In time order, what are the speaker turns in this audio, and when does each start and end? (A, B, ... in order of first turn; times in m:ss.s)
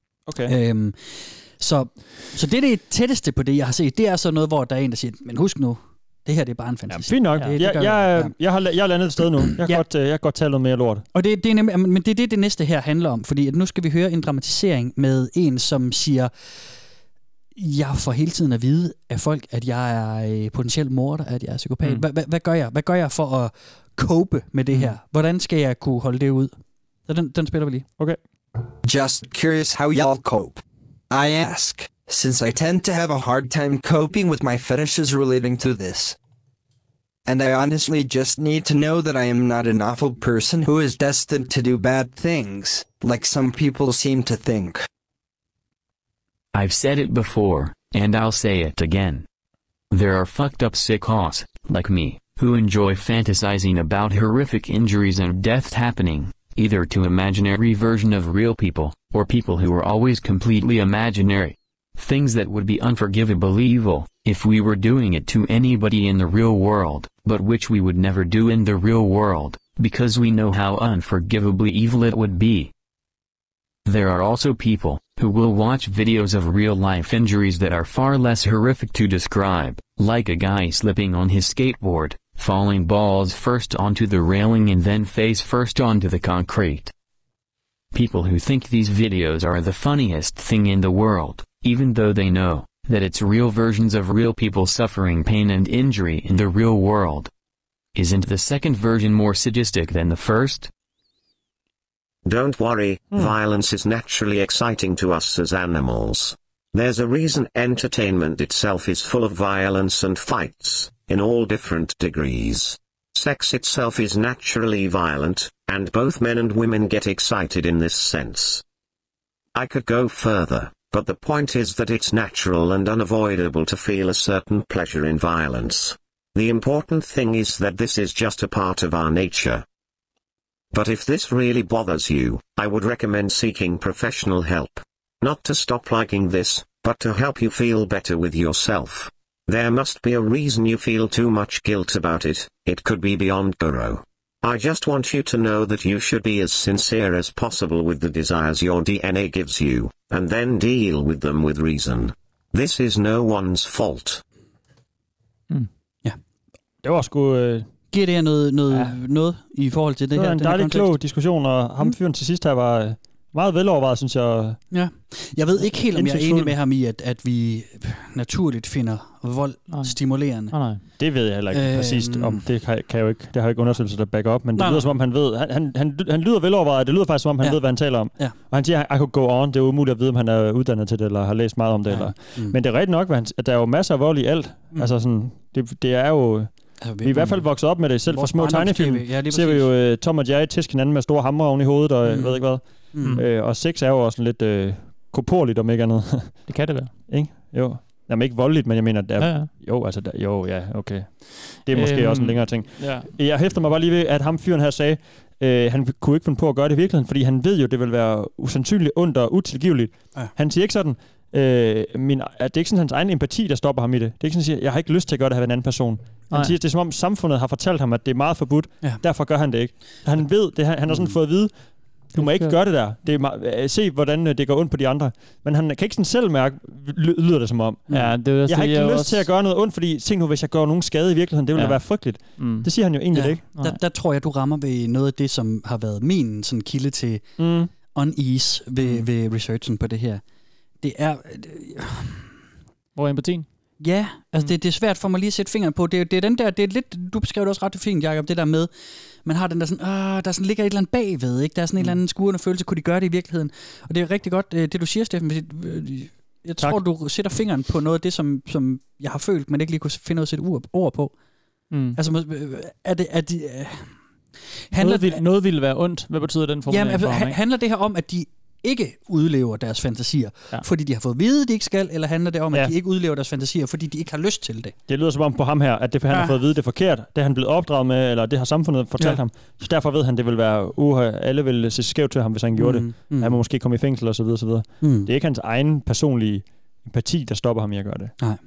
0:00.3-0:00.5 A
0:00.4-0:08.3 B
0:06.9-0:11.0 A
0:11.1-0:16.3 B
0:17.5-0:27.8 B
0:28.8-0:36.2 C
0:37.2-0:44.8 C
0:46.5-0:49.2 D
0:49.9-1:12.7 D
1:13.8-1:26.9 D
1:27.9-1:37.3 D
1:37.9-1:40.7 D
1:42.2-1:58.6 E
1:59.5-2:09.6 E
2:10.7-2:34.2 E
2:36.8-2:37.7 A
2:37.9-2:41.0 B
2:40.1-2:44.6 A
2:44.7-2:50.6 B
2:45.8-2:46.5 A
2:49.7-2:50.0 F
2:50.5-2:50.8 F
2:51.0-3:16.5 A
2:51.5-2:52.4 B
2:54.6-2:54.9 B
3:01.9-3:02.6 B
3:06.8-3:07.5 B
3:08.0-3:09.7 B
3:12.0-3:13.2 B
3:16.5-3:16.9 F
3:17.1-3:41.5 A
3:19.2-3:19.5 F
3:21.7-3:23.1 F
3:40.8-3:41.2 B
3:42.1-3:53.4 A
3:42.1-3:42.6 F
3:47.9-3:49.2 F
3:51.5-3:52.7 F
3:53.1-4:00.2 B
3:57.4-3:57.7 A
4:00.8-4:02.3 B
4:02.9-4:03.5 F
4:03.8-4:08.7 B
4:09.2-4:21.1 B
4:21.7-4:22.0 F
4:21.9-4:23.9 B
4:24.7-4:25.2 B
4:24.8-4:27.4 F
4:26.7-4:34.7 B
4:34.9-4:48.2 A
4:36.1-4:36.3 B
4:42.6-4:43.4 B
4:44.8-4:45.1 B